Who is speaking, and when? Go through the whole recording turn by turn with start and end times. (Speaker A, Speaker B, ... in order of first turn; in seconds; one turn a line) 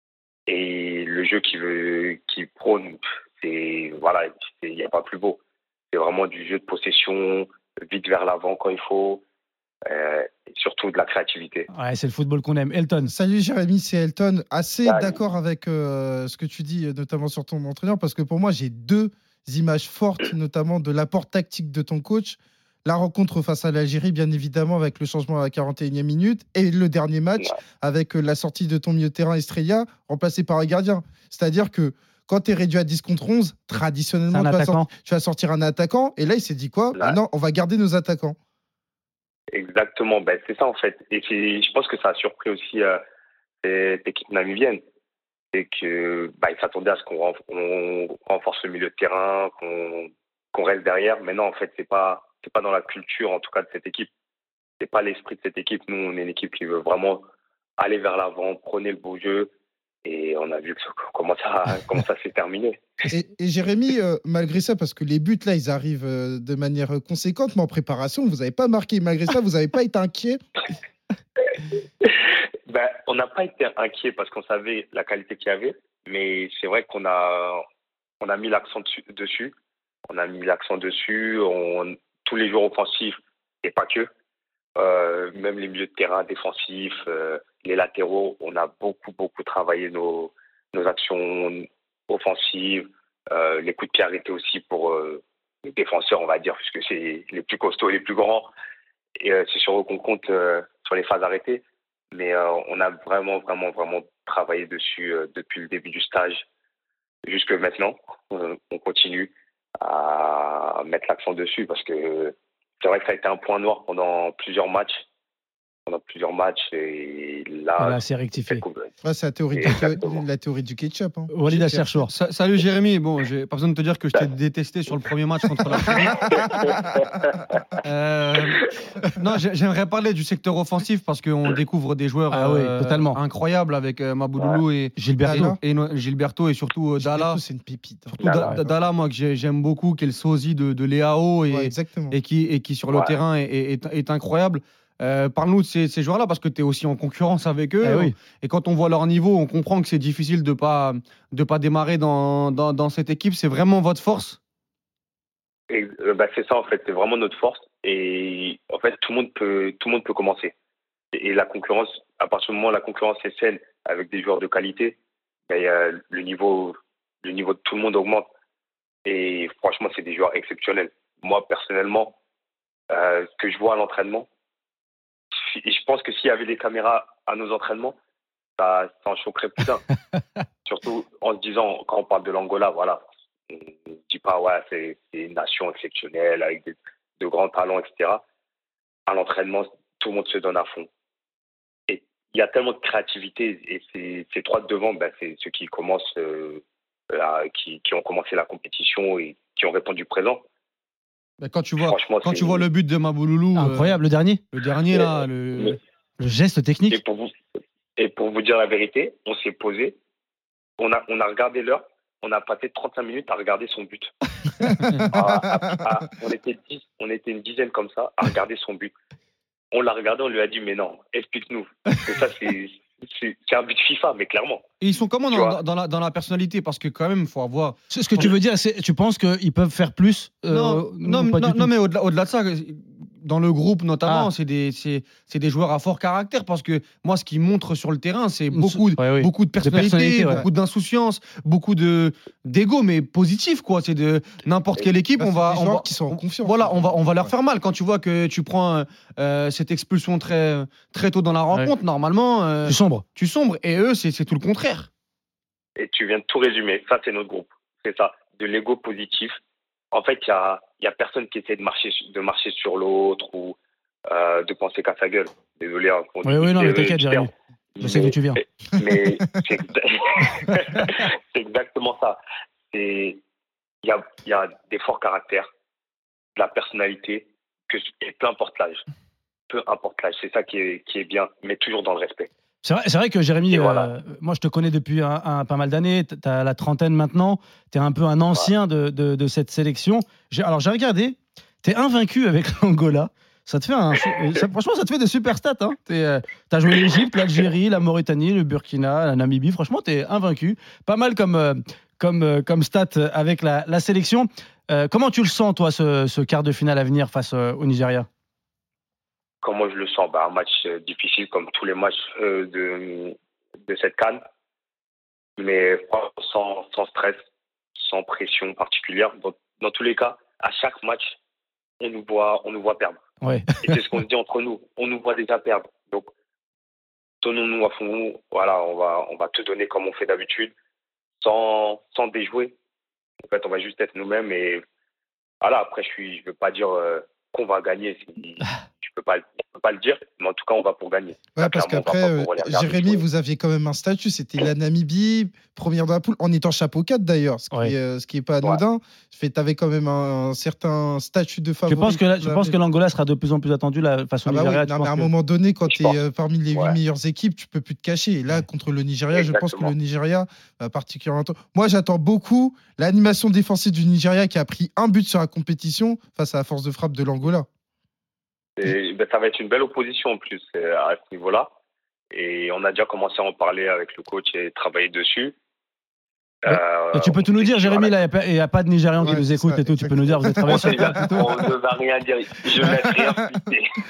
Speaker A: 0.5-5.4
Speaker A: 5.9-9.2
Speaker A: 9.9-11.7
Speaker B: 11.7-13.1
Speaker C: 13.1-38.4
Speaker A: 14.8-15.2
Speaker B: 34.3-34.9
Speaker A: 39.5-43.0
Speaker A: 43.6-44.8
Speaker A: 45.5-54.1
Speaker A: 54.8-57.2
Speaker A: 57.8-59.5
Speaker A: 60.0-63.1
Speaker C: 63.1-70.4
Speaker A: 72.0-77.6
Speaker A: 78.2-79.5
Speaker A: 80.1-84.1
Speaker A: 84.8-98.5
Speaker A: 99.2-106.4
Speaker A: 107.3-115.0
Speaker A: 115.9-118.9
Speaker B: 117.8-118.7
Speaker C: 119.0-121.9
Speaker A: 119.5-120.2
Speaker B: 121.3-122.1
Speaker D: 122.0-126.3
Speaker A: 125.8-127.5
Speaker D: 127.8-128.6
Speaker D: 129.2-137.4
Speaker B: 132.3-133.2
Speaker B: 135.0-135.6
Speaker C: 135.2-135.6
Speaker C: 137.0-138.2
Speaker B: 138.2-138.6
Speaker D: 138.2-154.4
Speaker A: 138.2-138.5
Speaker C: 141.5-142.2
Speaker A: 142.9-143.2
Speaker B: 147.8-148.2
Speaker A: 155.7-160.5
Speaker A: 161.1-165.0
Speaker A: 165.5-168.3
Speaker A: 169.1-172.1
Speaker A: 172.9-174.3
Speaker A: 175.5-177.9
Speaker A: 178.6-179.9
Speaker A: 180.7-183.0
Speaker A: 183.5-188.2
Speaker A: 189.1-190.9
Speaker A: 191.9-200.4
Speaker D: 201.4-204.0
Speaker A: 201.8-202.7
Speaker B: 203.6-204.4
Speaker D: 204.5-205.8
Speaker A: 204.9-205.8
Speaker B: 206.2-207.0
Speaker A: 206.9-207.3
Speaker A: 208.0-210.0
Speaker A: 210.8-214.1
Speaker C: 214.6-215.8
Speaker A: 215.1-218.9
Speaker A: 219.7-224.6
Speaker D: 224.8-228.3
Speaker A: 225.3-225.6
Speaker B: 227.9-231.7
Speaker D: 230.5-254.9
Speaker B: 234.1-234.3
Speaker B: 238.5-240.4
Speaker C: 245.2-247.3
Speaker B: 252.7-253.1
Speaker A: 255.8-259.4
Speaker A: 259.9-263.6
Speaker A: 264.1-268.2
Speaker B: 266.2-267.3
Speaker B: 267.8-268.4
Speaker A: 268.7-272.2
Speaker A: 272.7-273.2
Speaker A: 273.8-275.5
Speaker A: 276.4-278.8
Speaker A: 279.5-282.3
Speaker B: 282.6-308.1
Speaker A: 283.5-283.9
Speaker A: 309.4-313.1
Speaker A: 313.7-314.2
Speaker A: 315.4-317.2
Speaker A: 317.8-321.2
Speaker A: 321.8-323.0
Speaker B: 323.2-323.8
Speaker A: 323.6-326.1
Speaker A: 327.2-330.5
Speaker A: 331.2-332.5
Speaker A: 333.2-334.6
Speaker A: 335.4-343.1
Speaker C: 341.4-352.6
Speaker B: 351.7-355.1
Speaker C: 354.3-367.5
Speaker A: 355.7-356.0
Speaker A: 359.1-359.7
Speaker A: 368.6-371.5
Speaker A: 372.1-375.3
Speaker A: 376.5-378.0
Speaker B: 376.5-381.3
Speaker C: 379.0-381.4
Speaker A: 380.5-383.7
Speaker C: 382.6-383.3